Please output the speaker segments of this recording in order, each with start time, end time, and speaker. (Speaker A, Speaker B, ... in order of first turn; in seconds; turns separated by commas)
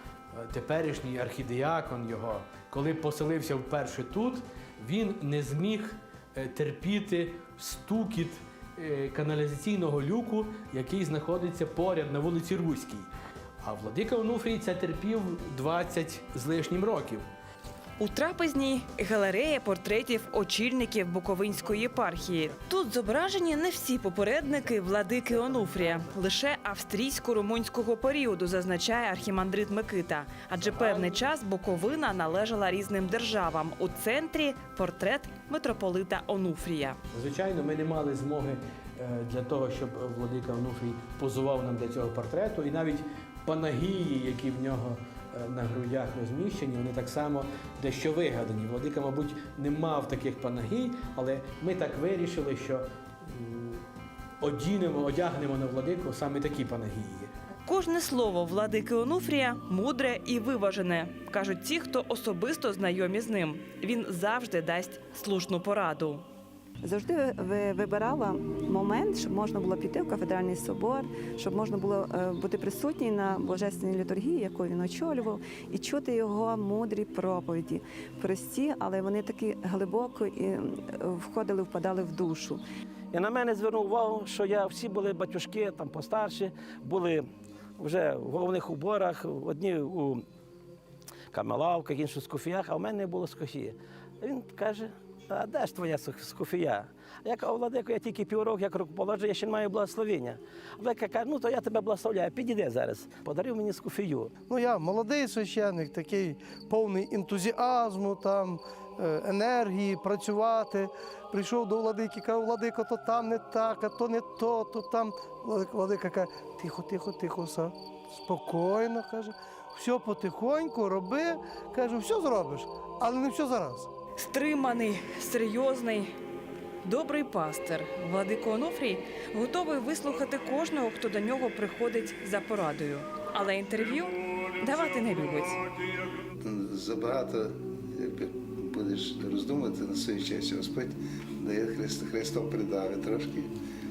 Speaker A: 0.3-13.1, Speaker A: 13.6-17.2, Speaker B: 18.0-37.0, Speaker A: 30.6-31.2, Speaker A: 37.1-53.8, Speaker A: 54.4-57.3, Speaker B: 57.6-66.2, Speaker C: 66.9-82.6, Speaker D: 83.1-87.2, Speaker D: 87.8-90.2, Speaker D: 91.3-104.3, Speaker E: 104.5-123.9, Speaker B: 124.2-126.1, Speaker B: 126.8-135.6, Speaker F: 136.4-143.5